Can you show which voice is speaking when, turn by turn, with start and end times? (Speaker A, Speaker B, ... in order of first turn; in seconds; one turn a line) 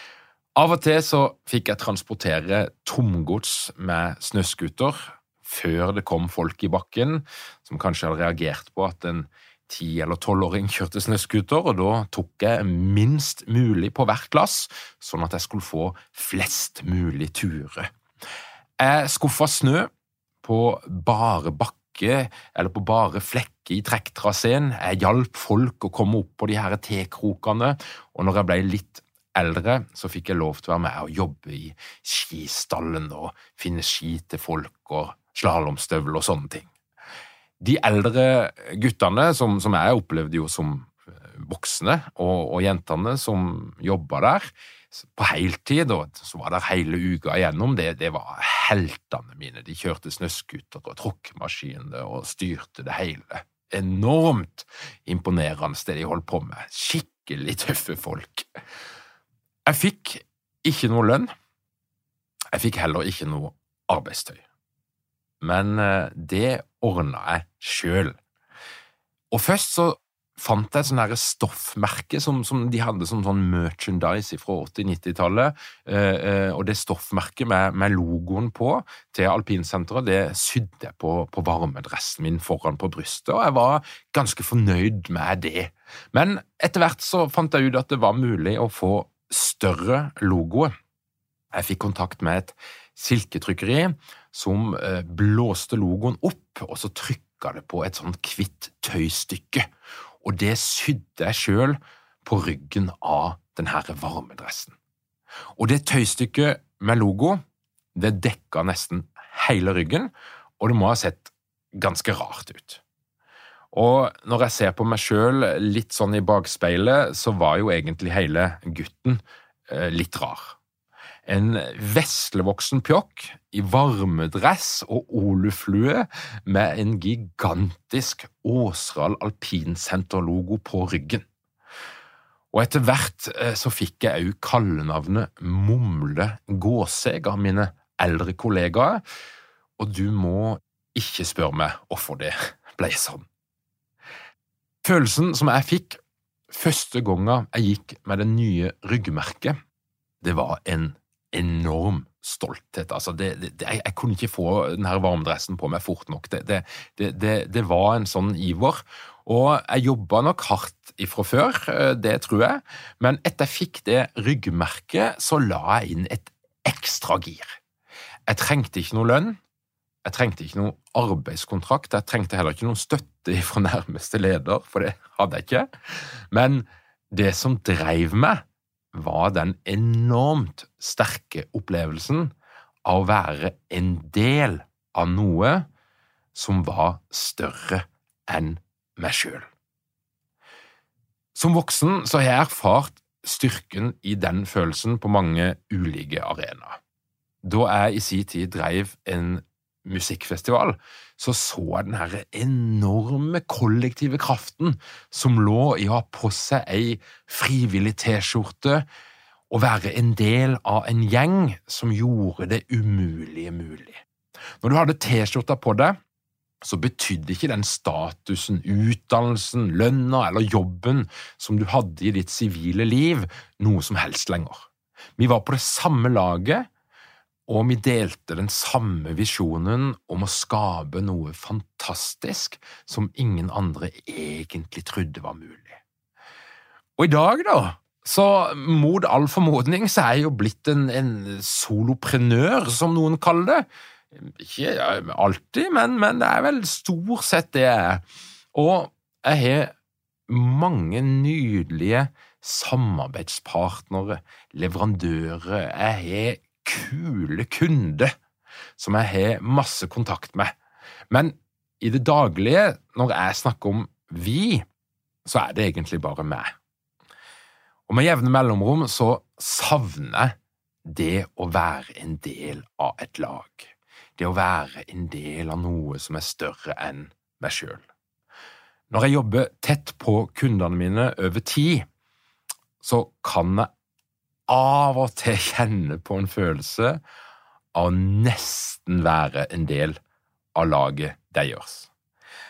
Speaker A: 0.6-17.9
Speaker A: 18.8-19.9
Speaker A: 20.4-36.7
Speaker A: 37.6-58.5
Speaker A: 59.7-61.3
Speaker A: 62.5-64.4
Speaker A: 65.4-68.2
Speaker A: 69.3-90.7
Speaker A: 91.5-99.7
Speaker A: 100.2-104.8
Speaker A: 105.6-107.4
Speaker A: 108.0-112.8
Speaker A: 113.7-120.6
Speaker A: 121.3-131.2
Speaker A: 132.5-139.0
Speaker A: 139.8-143.3
Speaker A: 144.8-146.0
Speaker A: 146.5-149.6
Speaker A: 150.2-167.6
Speaker A: 168.3-169.4
Speaker A: 170.1-182.3
Speaker A: 182.8-185.7
Speaker A: 186.3-189.5
Speaker A: 191.3-196.8
Speaker A: 197.4-208.9
Speaker A: 209.5-214.0
Speaker A: 214.6-216.0
Speaker A: 216.6-226.7
Speaker A: 227.5-235.8
Speaker A: 237.0-249.7
Speaker A: 250.3-258.1
Speaker A: 258.8-260.6
Speaker A: 261.1-264.6
Speaker A: 265.2-266.6
Speaker A: 267.9-270.3
Speaker A: 270.9-277.8
Speaker A: 278.9-281.9
Speaker A: 282.8-283.7
Speaker A: 284.5-287.0
Speaker A: 287.7-290.0
Speaker A: 290.6-291.9